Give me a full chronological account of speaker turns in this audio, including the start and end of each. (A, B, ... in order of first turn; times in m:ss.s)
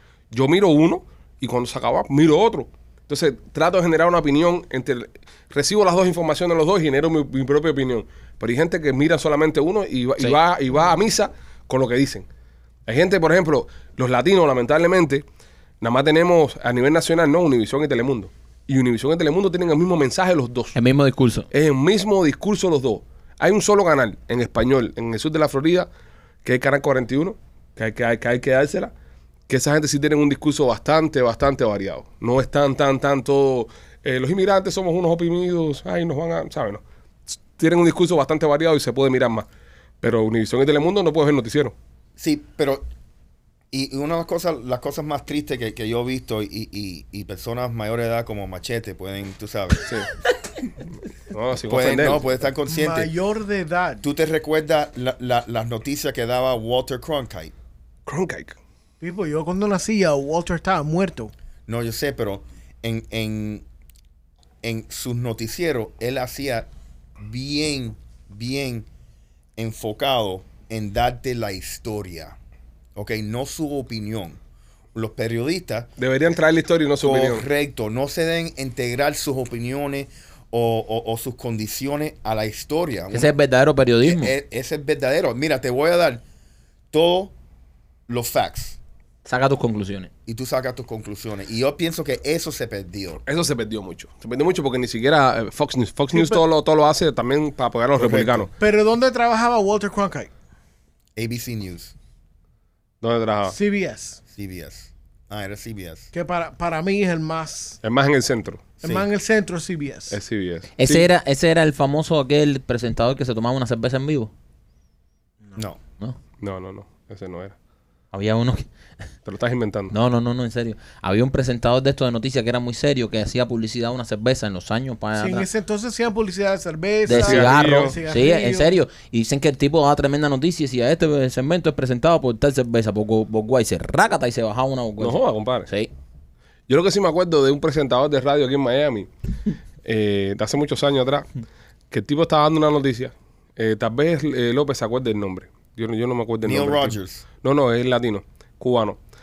0:00.3-0:12.2 A
0:12.8-0:15.2 A
0:15.8-0:20.8 A
0:20.7-0:21.5 B
0:21.5-0:25.9 A
0:26.4-0:28.9 A
0:29.5-0:39.5 A
0:40.0-0:41.7 A
0:42.2-0:42.8 C
0:43.7-0:49.9 C
0:51.3-0:52.2 A
0:51.6-0:53.1 C
0:52.7-0:54.0 D
0:54.0-0:57.5 C
0:58.0-0:58.6 A
0:59.0-1:01.3 D
1:01.7-1:03.6 C
1:04.6-1:06.7 C
1:07.2-1:08.9 C
1:09.6-1:12.4 C
1:12.9-1:14.4 C
1:14.9-1:15.9 C
1:16.0-1:17.4 A
1:17.0-1:23.3 C
1:23.1-1:24.3 B
1:24.0-1:26.2 C
1:26.9-1:27.3 C
1:28.1-1:28.8 C
1:29.2-1:30.1 B
1:30.2-1:33.2 C
1:33.2-1:38.5 A
1:36.1-1:36.4 D
1:37.9-1:38.5 C
1:38.6-1:40.3 D
1:41.2-1:41.9 C
1:43.0-1:43.5 A
1:43.5-1:44.2 D
1:44.3-1:46.1 C
1:46.1-1:47.8 D
1:47.8-1:48.7 A
1:48.8-1:50.2 D
1:48.8-1:49.1 C
1:50.1-1:51.1 A
1:50.8-1:54.3 B
1:56.4-1:57.5 A
1:58.1-1:58.6 B
1:59.2-1:59.9 A
1:59.9-2:05.5 B
2:05.2-2:08.8 D
2:07.0-2:15.9 B
2:07.1-2:08.0 A
2:15.0-2:15.7 A
2:16.7-2:19.1 A
2:19.8-2:21.3 A
2:21.9-2:29.0 A
2:26.4-2:27.2 C